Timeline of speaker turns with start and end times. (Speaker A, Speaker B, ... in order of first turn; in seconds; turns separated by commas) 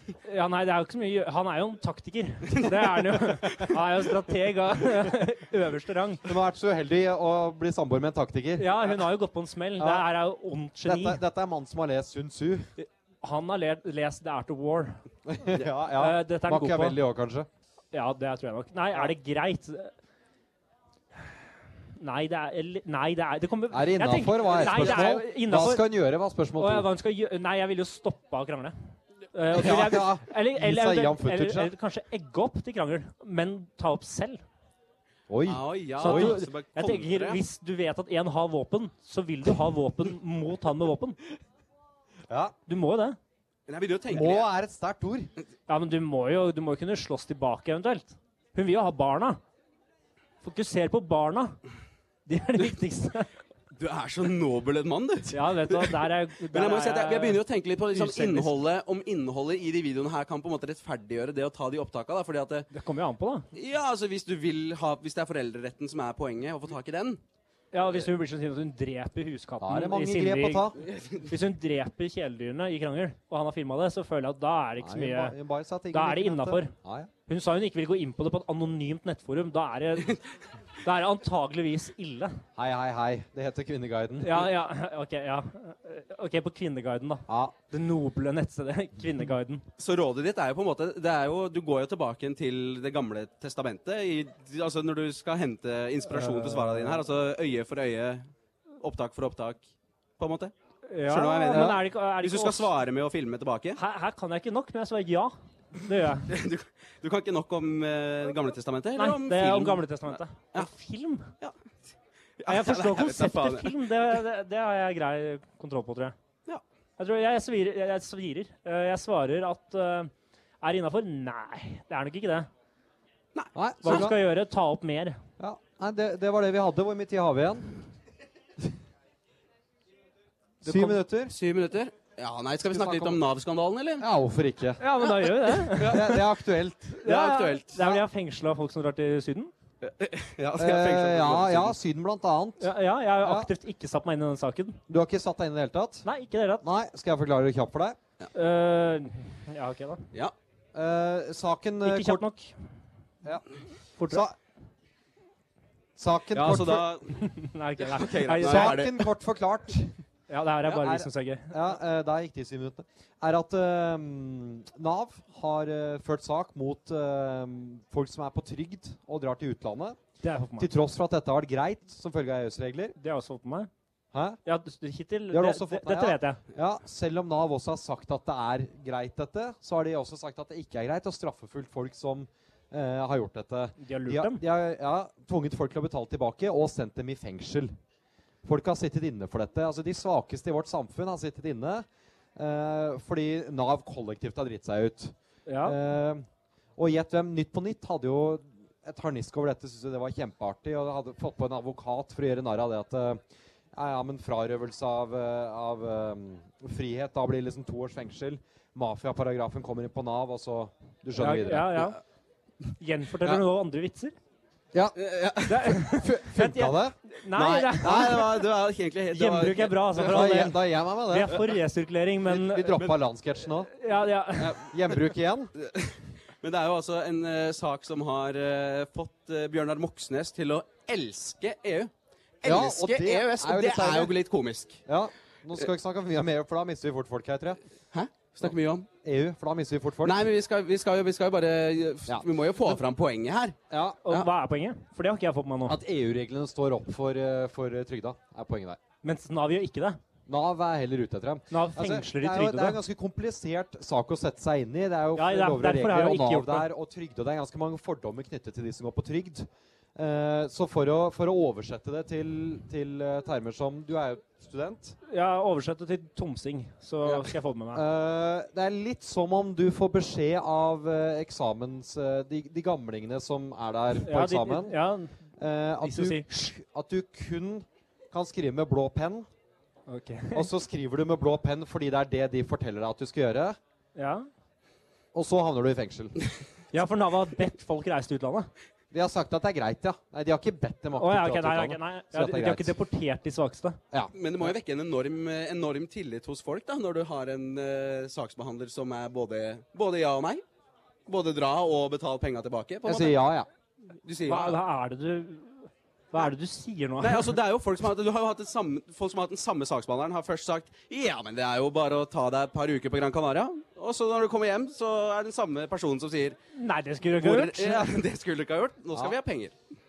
Speaker A: 0.2-6.3, Speaker B: 6.2-9.0, Speaker A: 8.6-11.2, Speaker B: 9.8-10.1, Speaker B: 10.8-12.7, Speaker A: 12.8-15.0, Speaker B: 15.3-17.5, Speaker A: 15.9-17.0, Speaker A: 17.9-19.9, Speaker A: 22.0-25.8, Speaker B: 23.7-26.9, Speaker A: 26.6-28.8, Speaker A: 29.3-34.4, Speaker B: 29.5-31.7, Speaker B: 35.3-36.4, Speaker C: 35.5-37.4, Speaker A: 36.0-41.2, Speaker B: 42.3-42.5, Speaker A: 42.7-43.2, Speaker C: 43.7-44.5, Speaker B: 44.1-45.3, Speaker A: 45.7-49.4, Speaker A: 50.4-51.6, Speaker A: 52.3-53.3, Speaker C: 53.8-62.7, Speaker A: 55.3-57.4, Speaker A: 57.9-58.5, Speaker A: 62.7-63.5, Speaker C: 63.5-67.2, Speaker A: 67.7-75.3, Speaker B: 69.6-70.8, Speaker C: 70.9-71.2, Speaker B: 74.8-77.1, Speaker A: 75.9-76.7, Speaker A: 77.3-80.2, Speaker A: 80.8-82.4, Speaker B: 82.6-84.5, Speaker A: 84.2-89.7, Speaker B: 87.3-87.5, Speaker C: 89.8-98.3, Speaker A: 96.2-96.9, Speaker C: 98.8-99.7, Speaker C: 100.2-100.5, Speaker A: 100.9-102.7, Speaker C: 101.0-103.8, Speaker B: 101.5-101.8, Speaker A: 103.8-106.3, Speaker C: 106.3-110.7, Speaker A: 109.0-111.3, Speaker C: 112.4-113.8, Speaker A: 112.5-116.2, Speaker A: 117.0-122.5, Speaker C: 123.3-124.1, Speaker B: 123.5-124.2, Speaker A: 123.8-125.2, Speaker B: 125.4-127.8, Speaker B: 130.6-131.3, Speaker C: 131.3-134.1, Speaker B: 132.7-133.2, Speaker B: 134.0-134.9, Speaker A: 134.8-136.3, Speaker C: 135.4-136.2, Speaker B: 135.8-137.1, Speaker A: 137.0-139.5, Speaker C: 137.1-137.9, Speaker C: 139.8-141.8, Speaker B: 140.6-143.5, Speaker A: 142.6-144.8, Speaker B: 144.9-146.1, Speaker A: 146.1-146.7, Speaker B: 146.6-148.0, Speaker A: 148.3-150.1, Speaker B: 150.7-152.3, Speaker A: 151.8-152.5, Speaker A: 154.0-154.3, Speaker B: 154.0-154.3, Speaker B: 156.0-156.9, Speaker C: 156.3-157.1, Speaker A: 156.3-158.9, Speaker C: 157.8-158.9, Speaker B: 158.4-160.0, Speaker A: 160.3-161.6, Speaker B: 160.7-170.0, Speaker A: 170.2-170.7, Speaker B: 170.6-173.0, Speaker A: 173.0-173.7, Speaker B: 174.1-174.4, Speaker A: 174.5-176.4, Speaker B: 175.3-187.7, Speaker A: 183.8-184.4, Speaker B: 188.4-191.8, Speaker B: 192.4-196.3, Speaker A: 195.5-195.8, Speaker B: 196.8-203.2, Speaker B: 203.7-211.9, Speaker A: 211.2-212.0, Speaker A: 212.8-214.2, Speaker C: 215.0-215.7, Speaker A: 215.5-218.3, Speaker B: 215.8-218.3, Speaker C: 217.7-220.4, Speaker A: 219.1-222.9, Speaker B: 220.0-221.4, Speaker B: 222.2-223.7, Speaker A: 223.7-224.6, Speaker C: 224.4-224.7, Speaker B: 224.7-225.5, Speaker C: 225.6-234.8, Speaker B: 232.4-234.2, Speaker B: 234.9-237.6, Speaker C: 237.9-238.9, Speaker B: 239.0-240.3, Speaker C: 240.0-243.6, Speaker B: 243.7-244.0, Speaker A: 244.1-245.8, Speaker B: 245.7-248.8, Speaker A: 249.0-250.0, Speaker B: 250.3-265.0, Speaker A: 251.5-252.8, Speaker A: 255.2-256.7, Speaker A: 265.1-267.8, Speaker B: 267.7-274.8, Speaker A: 274.0-275.2, Speaker B: 275.4-279.3, Speaker A: 275.8-276.3, Speaker A: 279.9-280.5, Speaker B: 280.3-283.6, Speaker A: 284.0-284.3, Speaker B: 285.1-286.2, Speaker A: 286.7-288.5, Speaker B: 288.9-292.7, Speaker A: 291.0-293.8, Speaker B: 293.9-294.5, Speaker C: 294.1-300.4, Speaker C: 301.1-303.2, Speaker B: 302.9-303.5, Speaker C: 304.1-304.6, Speaker A: 304.3-307.4, Speaker C: 307.0-316.4, Speaker A: 316.5-317.9, Speaker C: 317.1-319.6